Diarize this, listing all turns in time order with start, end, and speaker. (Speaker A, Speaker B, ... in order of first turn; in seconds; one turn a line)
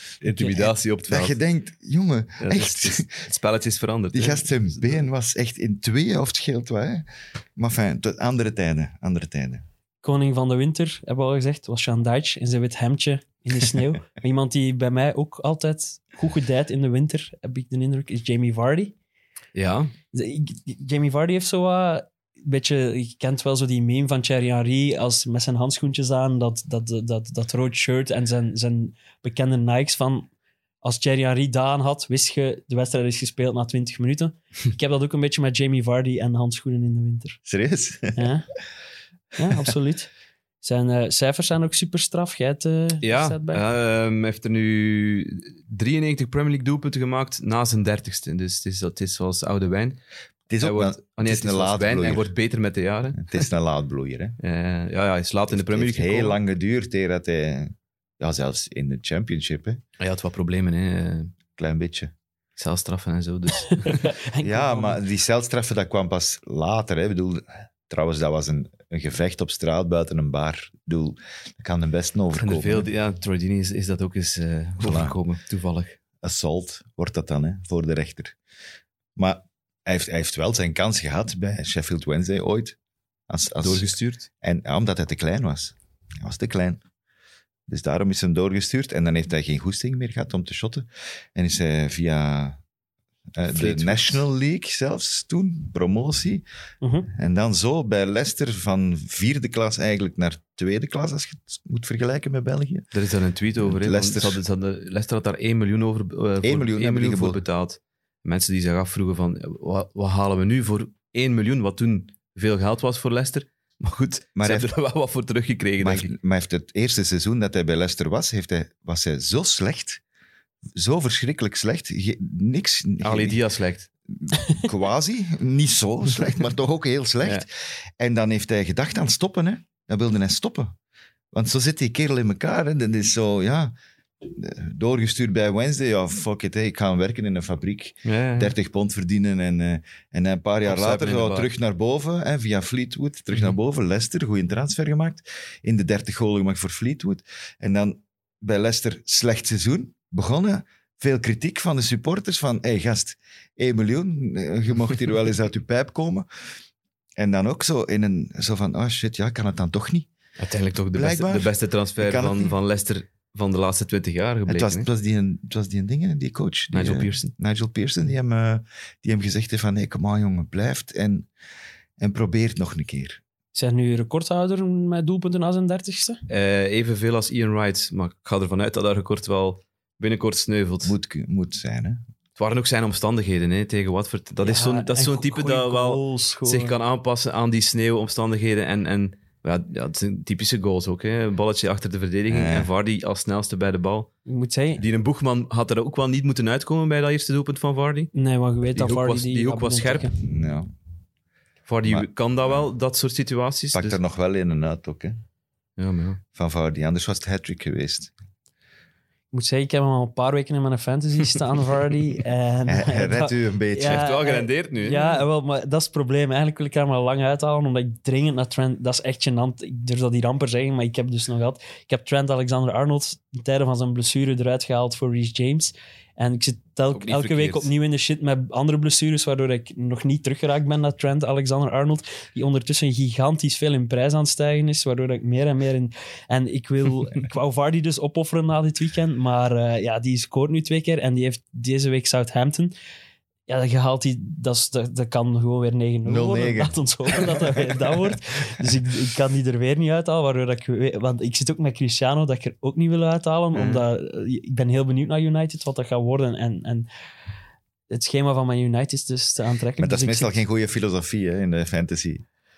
Speaker A: 0.2-1.4
Speaker B: 0.4-3.2
Speaker A: 2.4-5.0
Speaker B: 4.1-7.0
Speaker B: 7.6-9.6
Speaker C: 10.0-18.9
Speaker A: 19.5-19.9
Speaker C: 20.1-30.3
Speaker C: 30.8-37.4
Speaker B: 37.5-38.3
Speaker C: 38.1-38.5
Speaker C: 39.4-40.1
Speaker C: 40.6-43.6
Speaker A: 43.0-50.0
Speaker B: 50.5-52.3
Speaker A: 50.6-53.3
Speaker B: 53.2-54.4
Speaker A: 54.4-56.4
Speaker B: 55.5-59.8
Speaker A: 60.0-61.3
Speaker B: 61.6-62.1
Speaker A: 62.6-64.2
Speaker C: 63.8-65.0
Speaker B: 64.4-72.9
Speaker A: 72.4-76.0
Speaker B: 74.8-75.2
Speaker B: 76.2-78.3
Speaker B: 79.2-82.8
Speaker B: 83.3-83.9
Speaker A: 83.6-84.2
Speaker B: 84.4-86.8
Speaker B: 87.7-92.6
Speaker B: 93.3-96.4
Speaker A: 93.5-94.2
Speaker C: 96.8-97.1
Speaker B: 97.1-102.9
Speaker A: 102.9-116.1
Speaker B: 103.6-104.4
Speaker B: 106.4-107.4
Speaker B: 114.3-114.7
Speaker B: 115.8-120.0
Speaker B: 120.8-123.4
Speaker A: 123.0-123.9
Speaker B: 124.1-130.7
Speaker B: 131.3-133.7
Speaker B: 134.3-156.2
Speaker A: 138.0-138.5
Speaker A: 140.6-141.5
Speaker B: 157.2-160.1
Speaker A: 160.4-164.9
Speaker B: 160.9-162.6
Speaker B: 164.5-171.3
Speaker A: 166.7-167.3
Speaker B: 172.0-173.2
Speaker C: 173.5-176.2
Speaker A: 176.3-180.9
Speaker B: 180.8-182.0
Speaker A: 182.4-194.1
Speaker C: 184.4-186.8
Speaker B: 192.3-192.7
Speaker C: 194.2-194.8
Speaker A: 194.8-198.1
Speaker C: 198.1-200.1
Speaker A: 198.7-200.1
Speaker B: 200.2-200.7
Speaker A: 201.7-204.0
Speaker B: 201.8-202.7
Speaker B: 203.7-205.2
Speaker A: 205.8-206.2
Speaker B: 206.3-208.1
Speaker C: 209.3-242.7
Speaker B: 212.7-214.0
Speaker A: 213.8-215.2
Speaker A: 226.9-227.7
Speaker C: 243.5-256.9
Speaker B: 246.1-247.9
Speaker A: 253.5-253.8
Speaker C: 257.9-260.4
Speaker B: 259.8-262.2